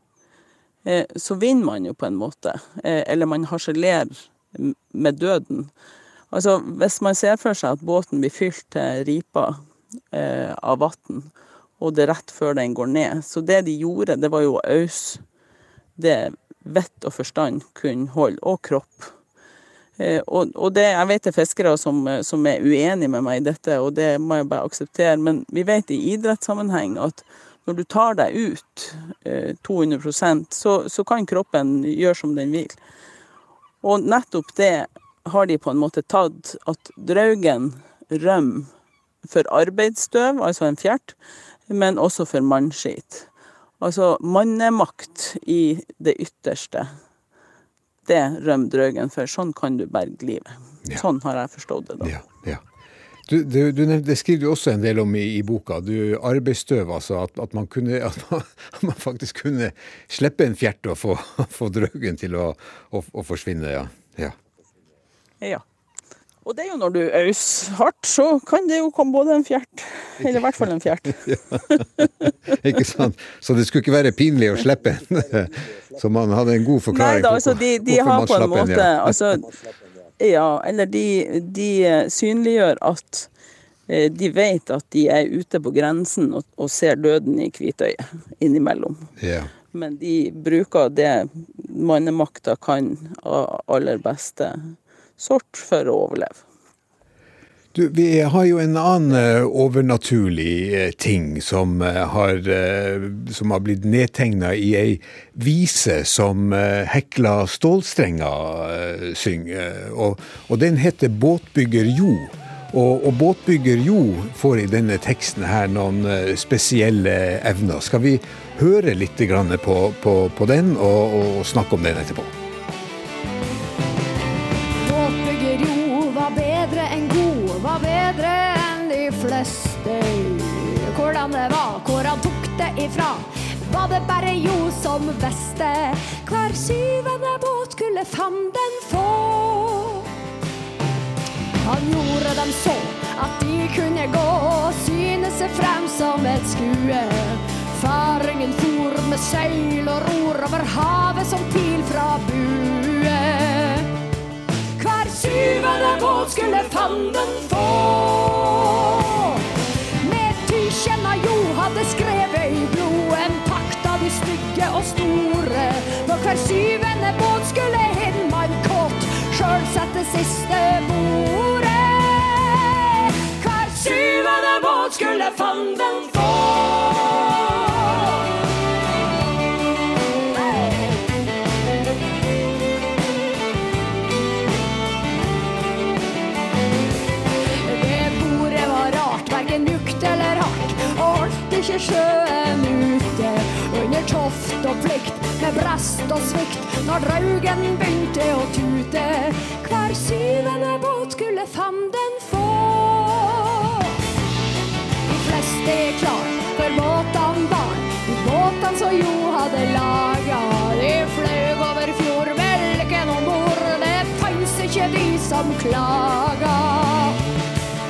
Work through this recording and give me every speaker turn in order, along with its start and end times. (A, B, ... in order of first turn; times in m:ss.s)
0:00.8-0:05.7 A
0:06.3-0:09.6 A
0:10.1-0:15.2 A
0:16.0-0:19.1 A
0:20.0-0:32.8 A
0:33.8-0:38.7 A
0:39.2-0:41.2 A
0:41.7-0:43.3 A
0:43.8-0:46.9 A
0:48.0-0:52.1 A
0:52.0-0:52.6 B
0:53.3-1:04.4 B
1:06.4-1:12.3 A
1:11.2-1:11.6 B
1:12.6-1:19.2 B
1:16.9-1:19.5 A
1:20.2-1:23.3 A
1:23.9-1:29.1 A
1:29.2-1:29.5 B
1:29.7-1:36.4 A
1:37.7-2:02.3 B
2:04.8-2:20.0 C
2:21.6-2:33.9 C
2:34.8-2:39.4 C
2:40.0-2:57.9 C
3:07.6-3:23.8 C
3:25.1-3:37.2 C